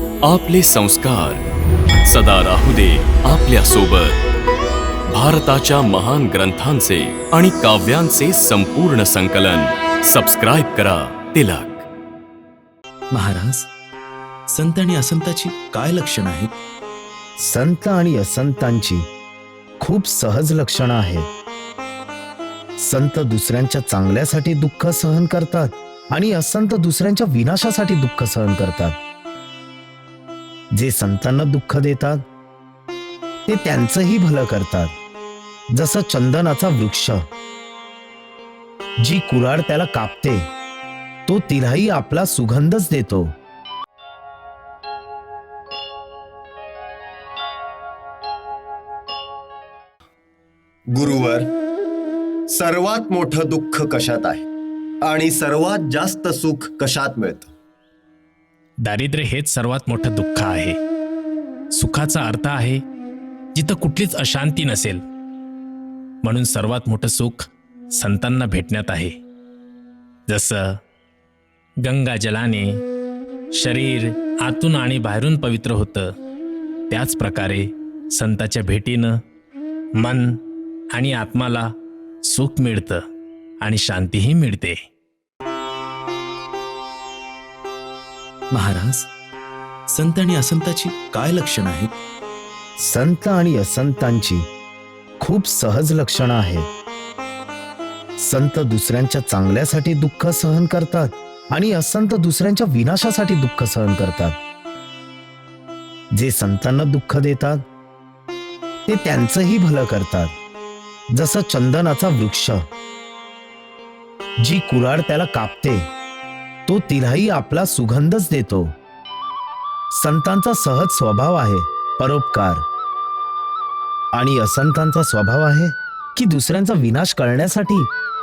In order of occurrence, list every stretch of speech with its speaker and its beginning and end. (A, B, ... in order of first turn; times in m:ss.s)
0:00.2-0:01.4 A
0:02.0-0:04.2 A
0:05.1-0:11.8 A
0:13.1-0:13.7 B
0:14.5-0:16.5 B
0:17.4-0:19.0 C
0:19.8-0:21.2 C
0:22.8-0:29.0 C
0:30.7-0:32.2 C
0:33.4-0:34.9 C
0:35.7-0:37.2 C
0:39.0-0:40.5 C
0:41.3-0:43.3 C
0:50.9-0:51.5 D
0:52.5-0:54.4 D
0:55.0-0:57.5 D
0:58.8-1:00.6 A
0:58.8-1:00.8 E
1:01.8-1:02.8 E
1:01.8-1:02.7 A
1:03.5-1:05.0 A
1:03.6-1:05.0 E
1:06.2-1:07.4 A
1:06.5-1:07.4 E
1:08.0-1:09.1 A
1:08.0-1:09.1 E
1:10.3-1:10.6 A
1:10.3-1:10.6 E
1:11.8-1:12.7 A
1:11.9-1:12.8 E
1:13.6-1:15.9 A
1:13.6-1:16.1 E
1:16.9-1:19.1 E
1:16.9-1:17.5 A
1:18.2-1:19.0 A
1:20.0-1:20.3 E
1:20.9-1:21.7 E
1:21.0-1:21.5 A
1:22.3-1:23.0 E
1:22.4-1:22.6 A
1:23.6-1:24.8 E
1:23.6-1:24.2 A
1:28.5-1:29.1 B
1:29.9-1:31.9 B
1:32.8-1:34.4 C
1:35.2-1:36.7 C
1:38.2-1:44.4 C
1:46.1-1:47.6 C
1:48.8-1:50.3 C
1:51.1-1:52.6 C
1:54.4-1:55.9 C
1:56.7-1:58.7 C
1:59.9-2:02.6 C
2:04.1-2:07.9 C